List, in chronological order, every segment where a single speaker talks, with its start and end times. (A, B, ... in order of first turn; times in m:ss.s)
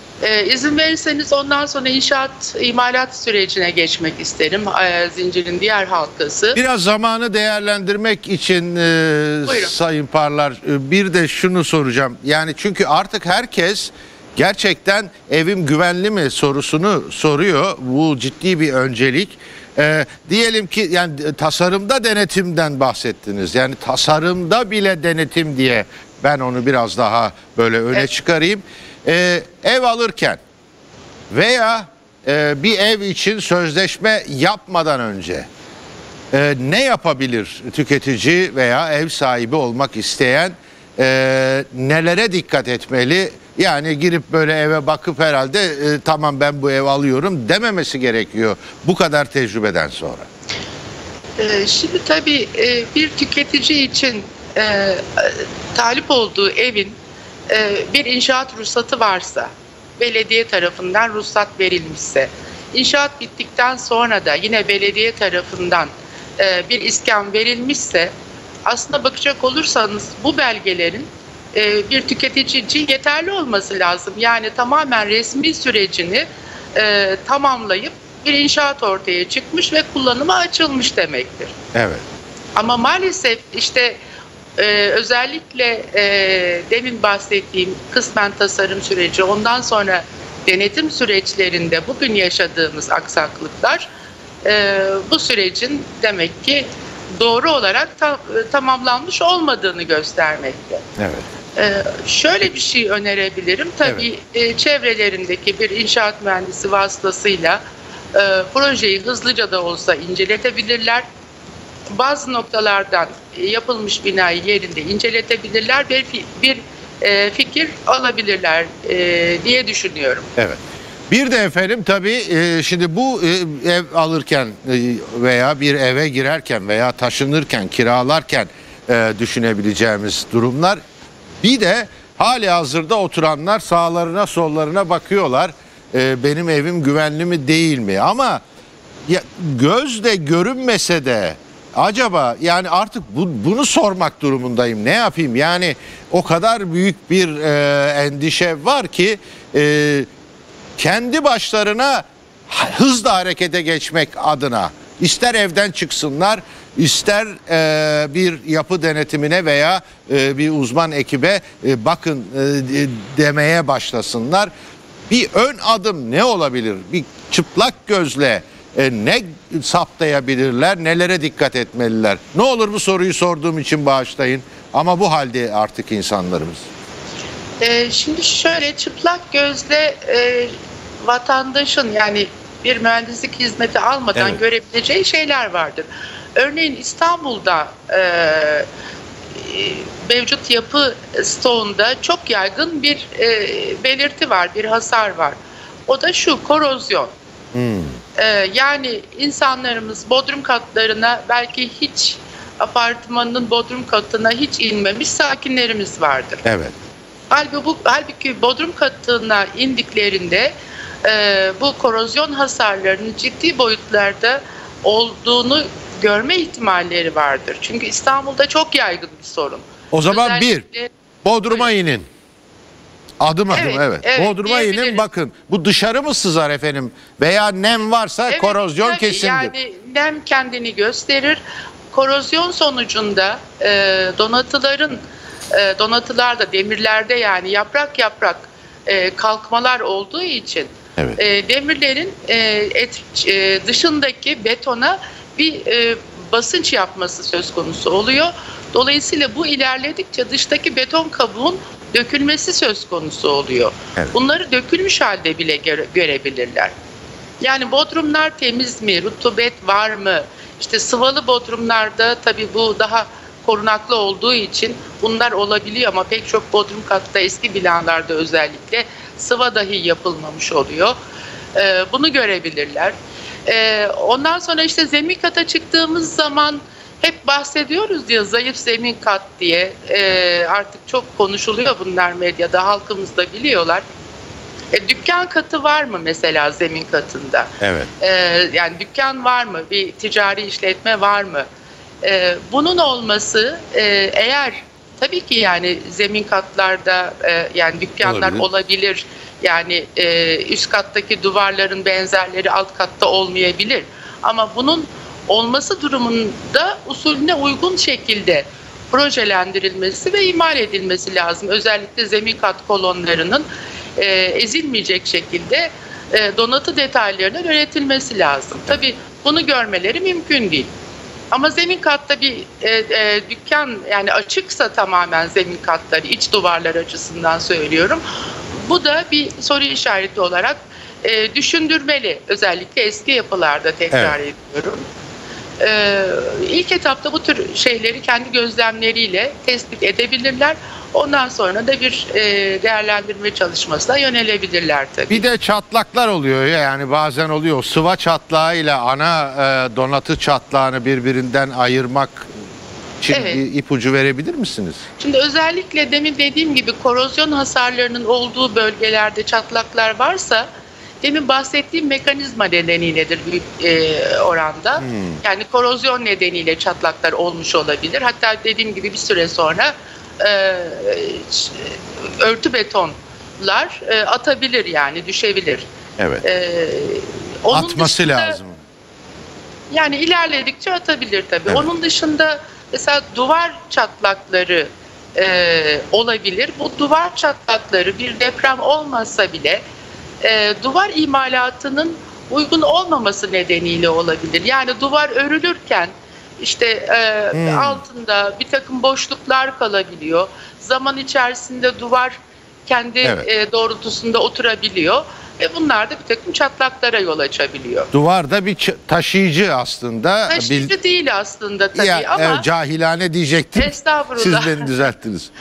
0:00.2-0:06.6 A
0:06.5-0:30.4 B
0:09.5-0:09.7 A
0:31.3-0:35.5 B
0:36.3-0:50.3 B
0:51.4-0:57.0 A
0:57.5-1:08.1 A
1:08.6-1:21.5 A
1:21.7-1:22.0 B
1:22.6-1:24.0 A
1:24.6-1:33.9 A
1:34.4-1:40.8 A
1:41.0-1:41.2 B
1:41.6-1:47.6 A
1:48.1-1:51.0 A
1:51.9-2:00.3 A
2:00.4-2:10.8 B
2:11.4-2:18.4 B
2:19.1-2:30.1 B
2:30.8-2:44.5 B
2:45.1-2:56.7 B
2:57.6-3:00.5 A
3:01.0-3:08.7 A
3:04.1-3:04.4 B
3:09.4-3:17.1 A
3:17.5-3:18.0 B
3:18.2-3:26.4 A
3:26.4-3:26.7 B
3:27.3-3:40.9 A
3:39.9-3:40.6 B
3:41.2-3:42.1 B
3:43.2-3:49.5 B
3:43.5-3:45.0 A
3:48.3-3:51.4 A
3:51.9-4:16.7 A
4:17.4-4:30.9 A
4:31.5-4:32.9 A
4:33.5-4:43.8 A
4:44.7-4:51.4 A
4:47.6-4:47.9 B
4:52.0-5:13.5 A
4:58.0-4:58.5 B
5:14.0-5:20.7 A
5:21.3-5:28.0 A
5:28.5-5:34.8 A
5:33.9-5:34.2 B
5:35.6-5:45.2 A
5:45.1-5:52.3 B
5:53.0-5:54.8 B
5:53.1-5:53.4 A
5:55.0-6:00.5 A
6:01.0-6:15.6 A
6:04.8-6:05.2 B
6:16.0-6:16.2 B
6:16.2-6:18.4 A
6:17.5-6:18.6 B
6:19.7-6:29.6 A
6:30.2-6:47.9 A
6:37.3-6:37.8 B
6:47.9-6:50.7 B
6:50.3-6:52.5 A
6:51.8-6:55.3 B
6:53.6-6:54.9 A